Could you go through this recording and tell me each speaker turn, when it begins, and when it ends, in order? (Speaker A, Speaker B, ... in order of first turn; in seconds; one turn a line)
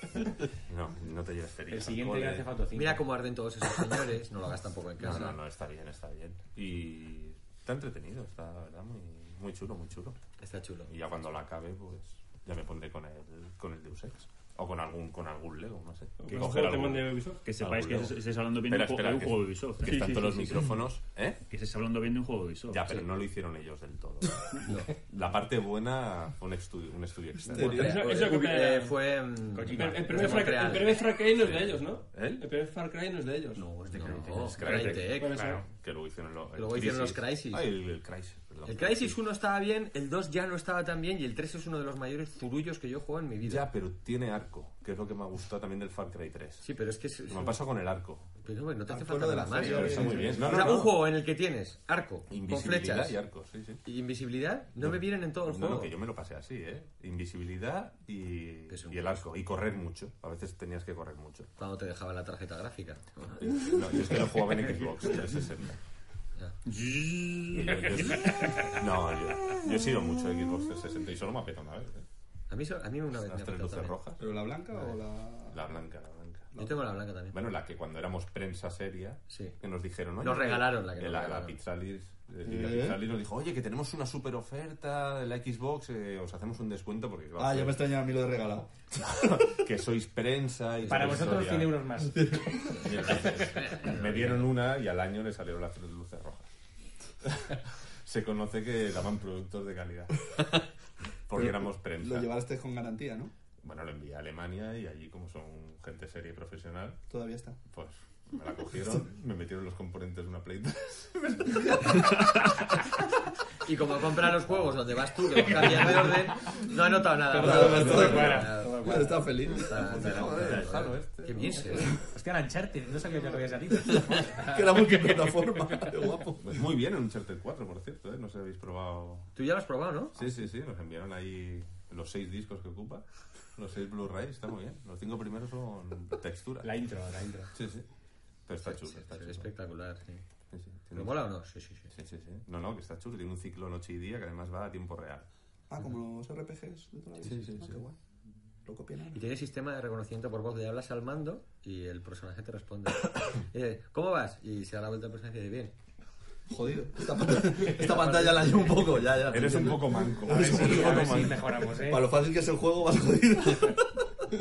Speaker A: 0.6-2.5
Speaker B: 1.7-3.0
Speaker C: 2.8-5.4
Speaker A: 5.0-10.2
Speaker C: 10.4-10.9
Speaker A: 10.9-21.4
Speaker D: 16.2-17.4
Speaker E: 17.4-20.6
Speaker D: 19.8-20.6
Speaker E: 21.5-22.9
Speaker A: 22.7-28.0
Speaker C: 24.7-24.9
Speaker F: 27.5-27.9
Speaker C: 27.5-31.1
Speaker D: 27.6-28.9
Speaker B: 29.6-30.5
Speaker D: 29.7-33.7
Speaker A: 31.4-32.5
Speaker C: 33.6-35.5
Speaker A: 33.9-39.1
Speaker B: 34.1-35.6
Speaker D: 34.9-35.6
Speaker C: 36.6-37.7
Speaker C: 38.6-43.7
Speaker A: 43.5-46.7
Speaker C: 46.6-47.6
Speaker A: 47.3-48.4
Speaker C: 48.4-53.2
Speaker F: 48.9-50.9
Speaker A: 49.5-51.0
Speaker A: 52.3-53.8
Speaker C: 53.9-55.9
Speaker A: 54.8-61.5
Speaker C: 58.7-59.2
Speaker C: 61.6-64.2
Speaker A: 63.4-65.8
Speaker E: 66.7-68.8
Speaker A: 67.5-72.0
Speaker C: 72.5-74.0
Speaker A: 73.2-74.2
Speaker F: 74.2-75.6
Speaker A: 75.5-76.5
Speaker C: 76.6-77.3
Speaker A: 77.3-87.8
Speaker C: 79.3-79.6
Speaker C: 80.2-81.6
Speaker F: 82.4-83.0
Speaker F: 87.4-89.0
Speaker A: 89.0-91.8
Speaker B: 90.9-92.3
Speaker F: 92.1-93.0
Speaker A: 92.8-96.5
Speaker B: 92.9-93.7
Speaker A: 97.2-100.3
Speaker A: 101.3-102.3
Speaker F: 101.3-103.3
Speaker A: 103.6-107.0
Speaker F: 107.1-107.6
Speaker A: 107.7-112.1
Speaker F: 111.5-112.4
Speaker C: 113.7-122.0
Speaker B: 115.6-116.1
Speaker F: 117.3-120.8
Speaker B: 117.3-119.3
Speaker A: 117.5-118.3
Speaker A: 119.8-121.5
Speaker B: 121.9-125.8
Speaker F: 123.8-126.7
Speaker A: 126.4-129.3
Speaker C: 129.4-130.2
Speaker A: 130.2-136.7
Speaker B: 136.6-137.5
Speaker A: 137.5-137.9
Speaker A: 138.5-139.5
Speaker C: 138.6-140.2
Speaker A: 140.5-141.2
Speaker C: 140.9-141.9
Speaker A: 141.9-145.3
Speaker F: 145.7-148.0
Speaker A: 147.2-147.8
Speaker F: 148.7-149.2
Speaker C: 149.1-155.7
Speaker F: 156.5-164.2
Speaker C: 157.7-159.1
Speaker A: 159.2-161.5
Speaker B: 160.3-162.1